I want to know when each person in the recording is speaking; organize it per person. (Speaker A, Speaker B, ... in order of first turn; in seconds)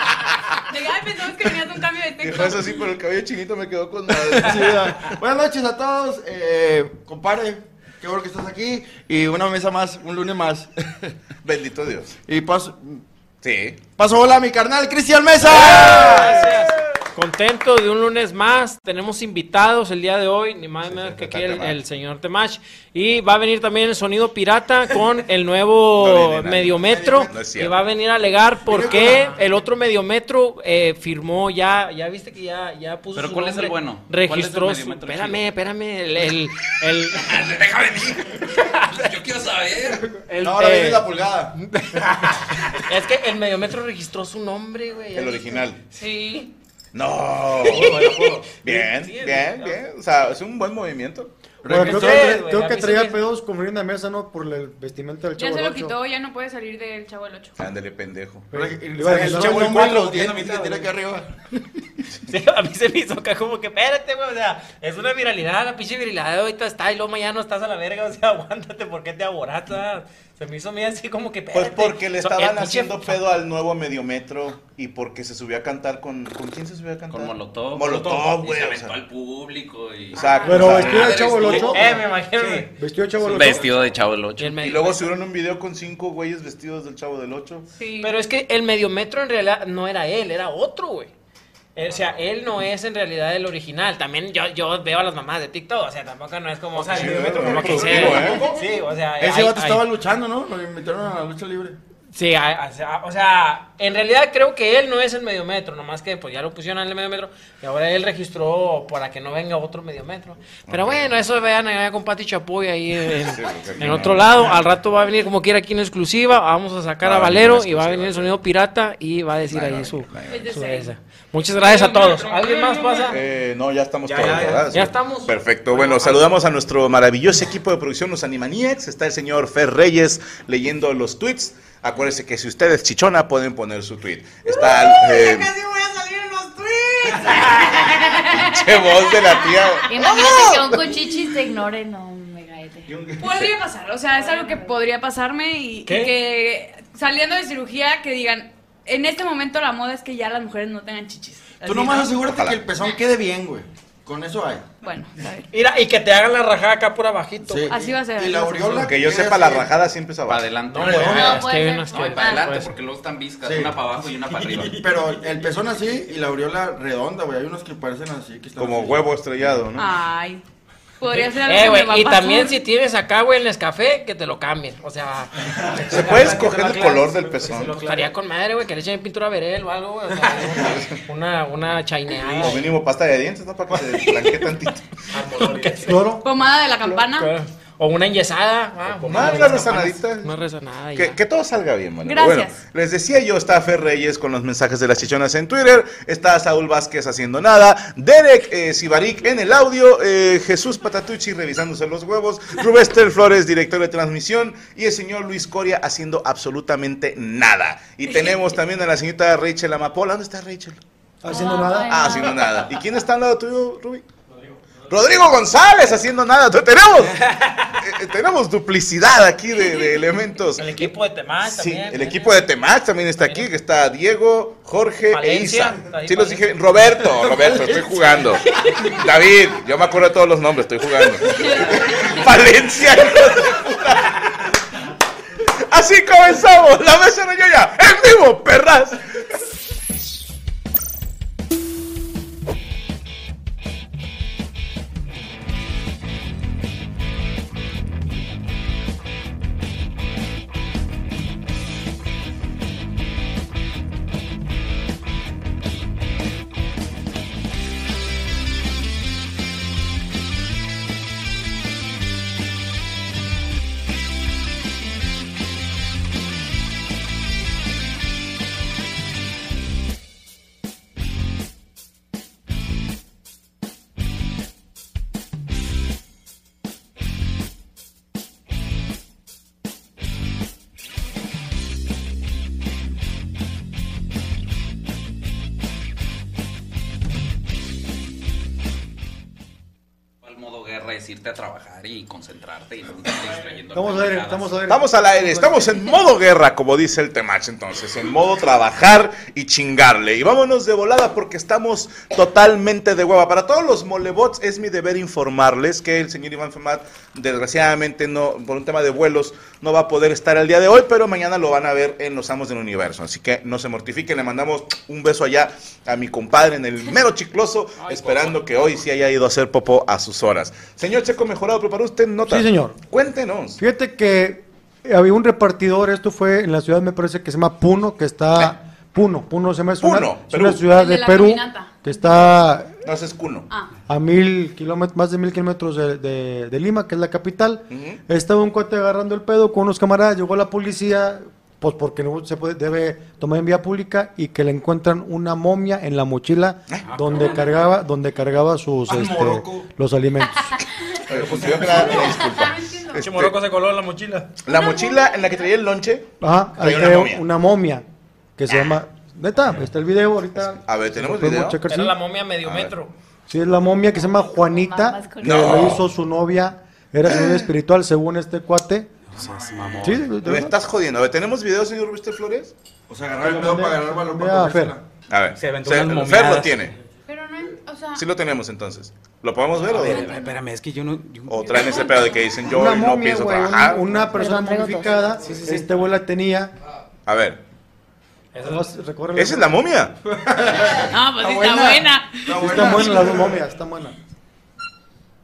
Speaker A: 0.7-2.8, 45.9-46.5, 55.4-57.5, 80.2-80.7, 87.8-88.2, 120.3-120.9, 121.6-122.3, 137.9-138.5, 143.2-152.1, 154.8-155.5, 157.7-158.9, 169.8-170.4, 171.0-172.6, 186.2-187.3, 192.0-192.6, 330.7-331.8, 352.2-353.0, 354.5-355.4, 377.1-378.0, 381.6-382.2, 390.8-393.1
Speaker B: 2.2-5.1, 11.4-12.2, 13.4-13.8, 15.5-16.6, 20.8-21.8, 26.0-27.8, 45.1-45.8, 46.9-51.3, 57.6-58.5, 71.5-78.9, 80.1-81.6, 84.6-87.7, 96.9-98.4, 110.7-111.2, 113.2-114.6, 117.0-118.4, 119.5-120.5, 123.1-135.5, 138.3-140.4, 152.3-152.6, 158.8-160.5, 168.6-169.9, 175.9-177.8, 182.4-184.8, 189.1-190.3, 190.9-210.8, 211.8-214.1, 214.9-217.2, 217.8-234.3, 235.7-239.0, 294.7-323.6, 329.8-330.7, 332.8-333.5, 337.7-338.0, 351.1-353.4, 354.4-357.2, 360.4-361.6, 362.4-362.7, 365.2-365.9, 367.1-367.4, 370.2-372.5, 375.1-376.7, 378.0-380.2, 381.3-384.0, 387.1-387.4, 389.2-389.9
Speaker C: 4.3-11.1, 12.3-13.0, 14.0-16.5, 26.8-27.3, 28.6-29.4, 40.4-41.5, 51.6-52.4, 58.5-61.3, 99.2-101.8, 142.9-143.2, 151.6-154.7, 157.4-159.7, 163.4-163.8, 164.7-169.1, 348.9-349.7, 369.4-369.7, 372.9-374.8, 390.1-391.7, 392.2-393.4
Speaker D: 15.5-37.4, 38.5-39.1, 40.2-45.6, 48.7-49.8, 51.7-53.2, 62.3-73.2, 81.5-82.7, 84.4-85.1, 88.0-91.1, 91.8-99.9, 102.1-123.2, 124.7-125.3, 145.9-146.1, 155.5-157.8, 160.7-162.7, 171.1-182.7, 185.2-186.0, 186.9-191.2, 220.6-222.4, 223.2-223.5, 225.1-226.8, 353.0-354.3, 361.7-362.9, 388.3-388.7
Speaker E: 33.1-35.6, 37.1-40.1, 77.1-82.0, 83.2-84.6, 160.3-164.8, 290.2-294.5
Speaker F: 47.6-48.5, 59.0-60.8, 82.3-82.7, 96.8-98.8, 122.3-123.0, 124.0-124.8, 125.7-126.2, 164.3-165.2, 175.9-176.9, 177.4-178.1, 180.2-180.4, 185.1-186.0, 188.8-189.9, 217.3-217.7, 317.8-318.4, 346.9-347.6, 351.1-352.1, 369.1-370.1, 375.4-376.6, 379.6-381.9, 385.2-385.6
Speaker G: 51.7-56.0, 58.5-60.0, 80.5-82.0, 82.8-83.7, 185.8-186.2, 211.2-212.2, 293.7-295.8, 322.2-322.8, 323.6-332.7, 333.9-350.6, 356.2-357.9, 358.4-362.0, 363.3-368.9, 369.8-370.6, 373.2-374.8, 382.5-386.5, 388.4-389.6, 391.4-391.8, 392.4-393.9
Speaker H: 139.9-142.9, 161.1-162.5, 211.3-212.6, 364.1-365.7, 384.2-385.1